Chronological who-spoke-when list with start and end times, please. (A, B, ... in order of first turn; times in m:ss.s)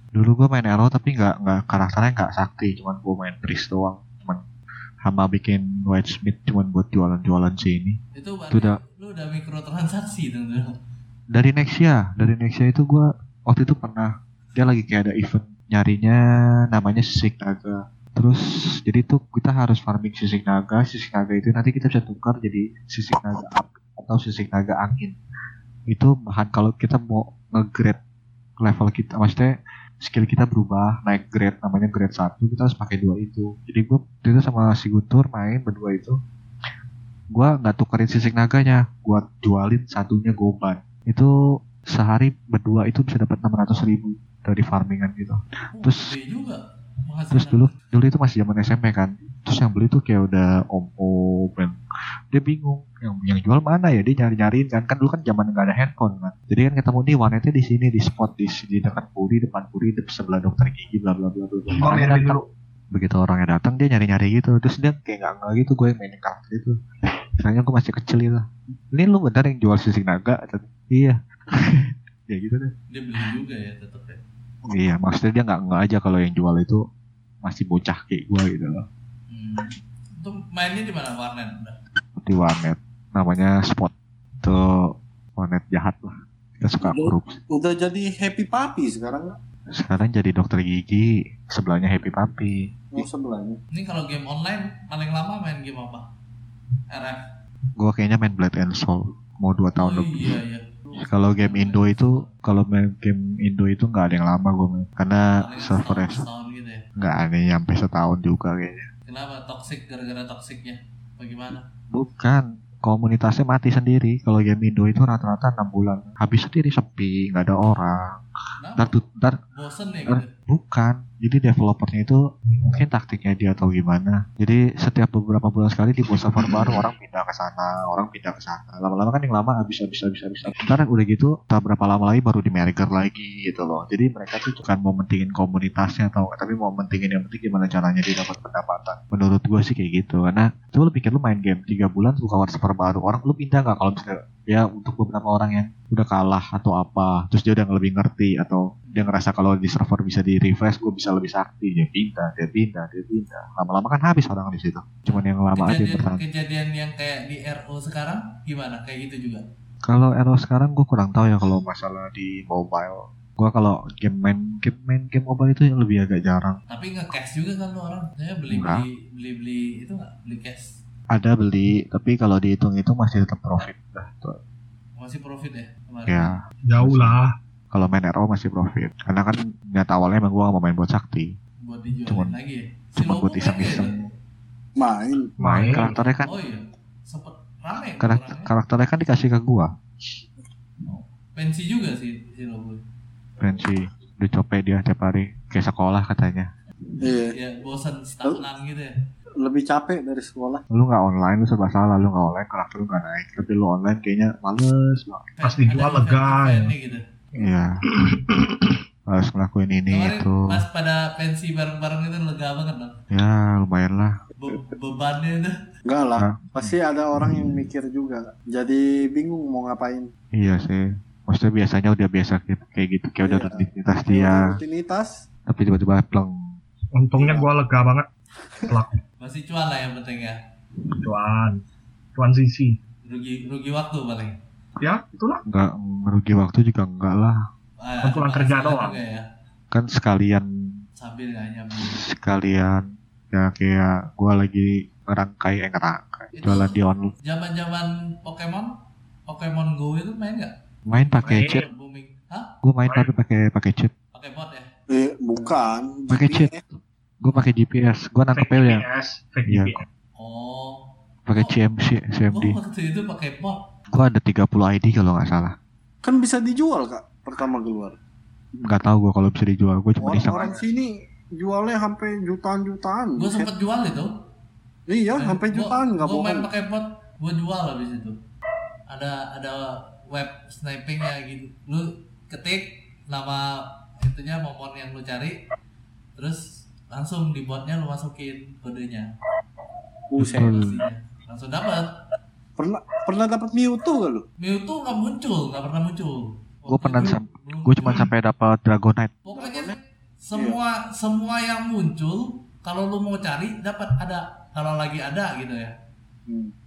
0:00.1-0:04.4 A
0:05.0-0:08.0 A
0:08.2-0:10.7 B
0:08.5-0:08.8 A
0:11.3-0:25.2 A
0:25.9-0:28.0 A
0:28.6-0:36.2 A
0:37.3-0:41.3 A
0:41.9-0:46.1 A
0:45.7-0:47.8 B
0:47.3-0:51.8 A
0:52.3-1:02.4 A
1:01.8-1:02.4 C
1:02.9-1:06.8 A
1:07.4-1:12.7 A
1:12.9-1:14.2 B
1:14.7-1:16.8 A
1:17.4-1:18.9 A
1:19.3-1:21.8 B
1:22.2-1:27.3 A
1:26.8-1:29.4 D
1:29.8-1:33.1 A
1:32.9-1:33.6 D
1:33.7-1:36.1 B
1:36.9-1:37.2 B
1:37.8-1:40.4 A
1:39.8-1:42.4 B
1:41.0-1:46.2 A
1:45.4-1:46.8 B
1:47.0-1:48.9 A
1:49.1-1:51.6 B
1:51.9-1:58.0 A
1:58.6-1:59.0 B
1:58.8-1:59.4 A
1:59.5-2:00.3 B
2:00.1-2:36.2 A
2:10.4-2:10.7 B
2:28.9-2:29.1 B
2:35.1-2:39.4 B
2:39.8-2:46.6 A
2:46.7-2:50.7 B
2:48.5-2:48.8 A
2:51.1-2:54.4 A
2:55.0-2:56.3 B
2:56.1-2:57.2 A
2:56.7-2:57.3 C
2:57.7-3:01.3 A
3:01.6-3:03.9 B
3:02.1-3:02.3 A
3:03.0-3:03.9 A
3:04.8-3:05.3 D
3:05.4-3:05.9 C
3:05.4-3:06.4 A
3:06.0-3:08.5 B
3:08.0-3:09.7 A
3:10.9-3:12.8 B
3:13.4-3:16.5 A
3:17.0-3:17.4 D
3:17.3-3:18.9 B
3:19.4-3:20.6 D
3:20.7-3:25.3 A
3:25.4-3:27.0 B
3:25.4-3:26.7 C
3:27.4-3:27.7 A
3:27.9-3:28.8 C
3:29.1-3:30.4 A
3:29.9-3:32.9 B
3:33.1-3:34.2 A
3:34.4-3:35.5 B
3:35.9-3:40.1 D
3:36.2-3:37.5 A
3:40.4-3:44.5 A
3:43.3-3:45.1 D
3:45.5-3:46.6 A
3:47.0-3:48.1 C
3:47.2-3:47.5 D
3:48.7-3:49.0 C
3:49.2-3:50.4 B
3:51.0-3:51.6 C
3:52.2-3:52.8 C
3:53.1-3:54.4 B
3:54.8-3:55.4 C
3:55.5-3:57.4 A
3:57.8-3:59.3 B
3:58.0-3:59.0 C
3:59.7-4:00.5 A
4:01.0-4:02.0 B
4:02.0-4:07.1 A
4:06.4-4:06.7 B
4:07.3-4:08.7 B
4:09.3-4:12.5 B
4:10.9-4:11.6 A
4:11.2-4:11.6 C
4:12.6-4:13.9 A
4:14.1-4:14.7 B
4:14.9-4:16.6 D
4:16.1-4:16.5 A
4:17.2-4:18.8 A
4:18.4-4:19.8 C
4:19.5-4:19.8 A
4:20.2-4:20.8 B
4:21.3-4:22.6 A
4:22.3-4:23.6 B
4:23.9-4:25.6 A
4:26.0-4:28.0 D
4:28.6-4:30.6 A
4:30.0-4:33.5 D
4:33.2-4:34.1 B
4:34.9-4:36.5 D
4:35.1-4:38.2 B
4:38.9-4:43.4 B
4:44.0-4:45.4 B
4:46.2-4:49.1 B
4:50.1-4:50.7 D
4:50.2-4:50.7 A
4:50.2-4:51.9 B
4:52.6-4:54.2 D
4:54.4-4:58.0 B
4:56.7-4:59.2 A
4:59.2-5:05.7 B
4:59.3-4:59.8 D
5:00.3-5:00.6 D
5:06.3-5:06.5 D